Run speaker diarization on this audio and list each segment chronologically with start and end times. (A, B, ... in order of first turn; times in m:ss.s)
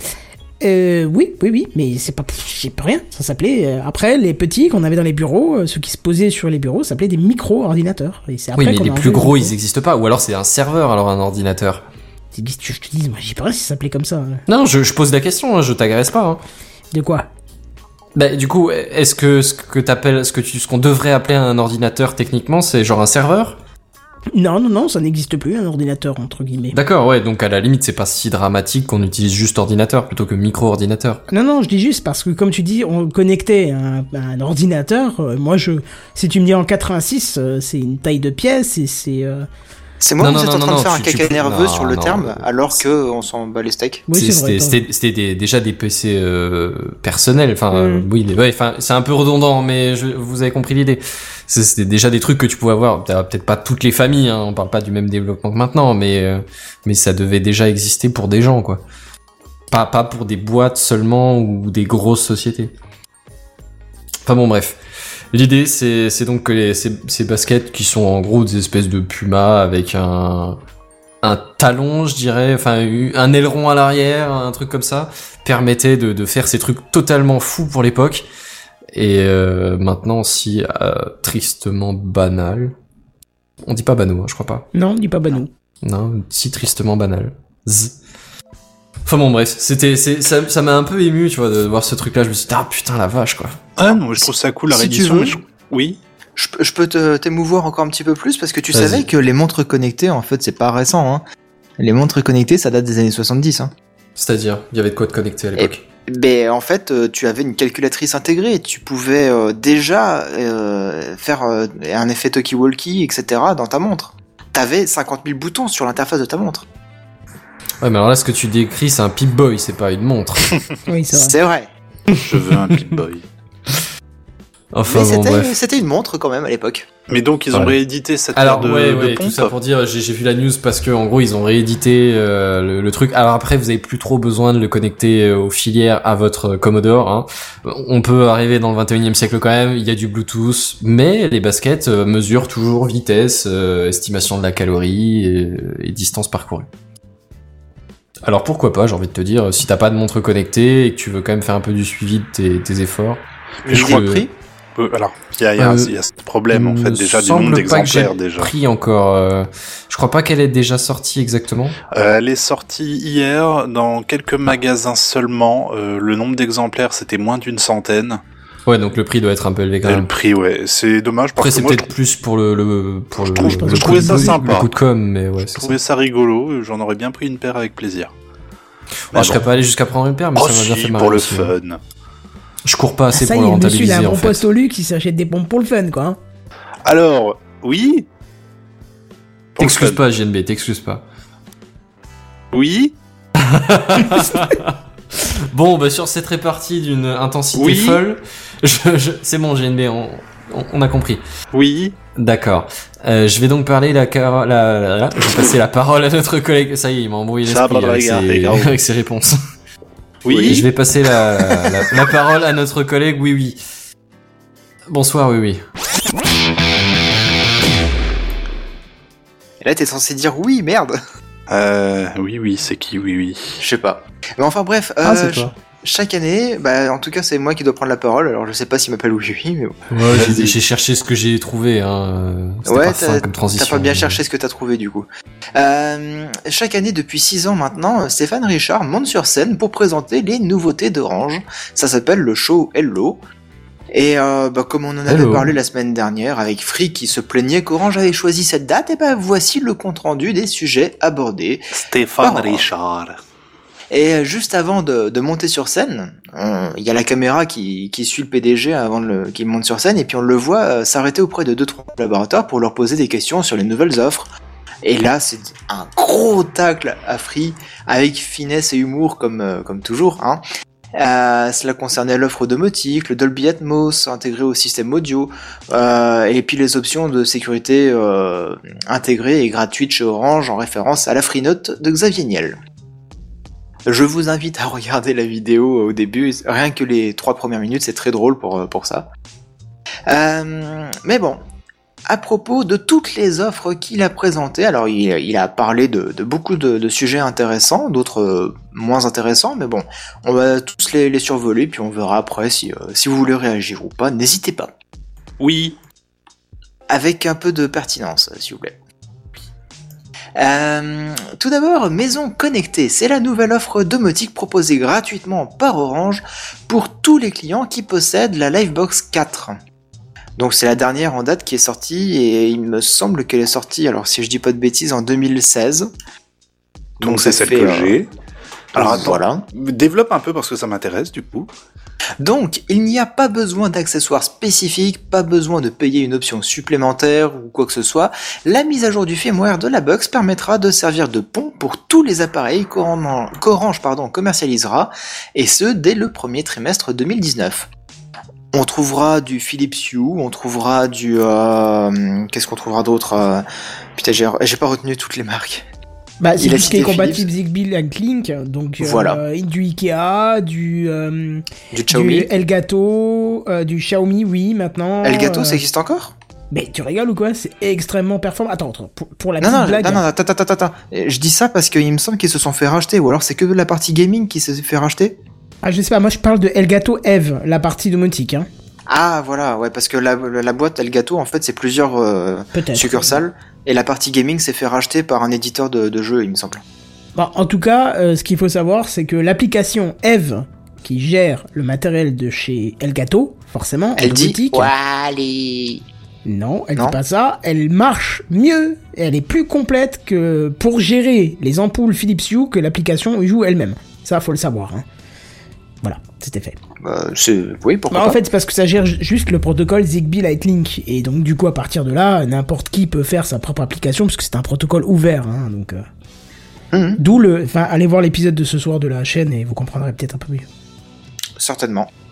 0:00.6-0:09.5 A
0:08.6-0:11.8 B
0:12.3-0:14.4 A
0:14.5-0:16.4 B
0:16.9-0:17.2 A
0:18.1-0:23.6 B
0:24.3-0:26.8 A
0:26.7-0:31.2 B
0:31.3-0:39.4 A
0:40.0-0:44.0 C
0:40.2-0:42.5 B
0:44.1-0:44.8 A
0:44.1-0:58.8 B
0:47.7-0:48.1 A
0:59.7-1:02.7 B
1:04.2-1:04.8 B
1:05.3-1:10.6 B
1:11.2-1:18.2 B
1:18.9-1:22.7 B
1:23.6-1:24.7 B
1:24.7-1:25.5 A
1:25.8-1:27.9 B
1:29.0-1:33.6 B
1:33.8-1:36.0 D
1:34.2-1:35.4 C
1:36.4-1:41.2 C
1:38.7-1:39.0 B
1:41.8-1:43.7 C
1:44.2-1:45.8 B
1:45.6-1:56.6 C
1:57.8-2:00.5 B
2:00.9-2:01.4 A
2:01.1-2:01.7 C
2:02.2-2:03.3 D
2:04.7-2:05.5 B
2:04.9-2:06.9 C
2:07.1-2:09.5 D
2:08.3-2:26.7 B
2:28.2-2:34.2 B
2:33.6-2:34.2 D
2:33.7-2:34.3 C
2:34.8-2:38.5 D
2:35.6-2:35.9 B
2:36.5-2:41.8 B
2:41.9-2:48.2 D
2:48.6-2:50.1 B
2:49.8-2:51.9 D
2:51.4-2:55.7 B
2:53.3-2:54.7 D
2:53.4-2:54.4 A
2:55.5-2:58.1 D
2:59.1-3:01.5 B
2:59.1-2:59.4 D
3:00.3-3:01.8 D
3:02.6-3:04.4 B
3:03.1-3:06.2 A
3:06.8-3:08.0 D
3:09.5-3:10.0 D
3:09.6-3:11.0 B
3:12.5-3:12.9 D
3:13.4-3:21.2 B
3:17.5-3:18.0 D
3:21.5-3:21.9 D
3:22.2-3:29.4 B
3:27.5-3:28.7 D
3:30.2-3:30.7 D
3:30.3-3:33.6 B
3:31.3-3:32.1 D
3:34.9-3:35.6 B
3:39.6-3:41.0 C
3:41.5-3:43.6 D
3:43.6-3:49.8 C
3:45.0-3:45.5 B
3:49.9-3:54.2 B
3:50.1-3:50.6 D
3:52.6-4:03.2 C
4:03.9-4:11.6 C
4:05.1-4:05.5 B
4:11.7-4:13.2 D
4:12.2-4:12.7 C
4:13.9-4:24.3 C
4:24.8-4:30.4 C
4:30.9-4:42.6 C
4:43.8-4:49.1 C
4:50.1-4:51.4 C
4:52.1-5:04.7 C
5:05.4-5:05.8 D
5:06.9-5:08.8 C
5:10.4-5:19.6 C
5:20.4-5:25.9 C
5:27.0-5:28.0 C
5:27.0-5:28.1 D
5:28.7-5:29.4 C
5:28.7-5:31.5 D
5:32.2-5:47.7 C
5:48.5-5:55.7 C
5:56.2-6:05.6 A
5:56.4-5:57.3 C
5:58.8-5:59.2 C
6:01.7-6:02.3 C
6:05.0-6:06.1 C
6:06.5-6:10.0 A
6:09.4-6:15.2 C
6:15.6-6:18.5 A
6:18.9-6:26.6 C
6:22.5-6:23.2 A
6:27.2-6:34.7 A
6:34.0-6:35.8 C
6:36.2-6:44.8 A
6:45.8-6:46.6 A
6:46.8-6:48.2 C
6:47.9-6:55.8 A
6:56.7-6:57.0 C
6:57.0-7:00.4 A
7:01.4-7:01.9 C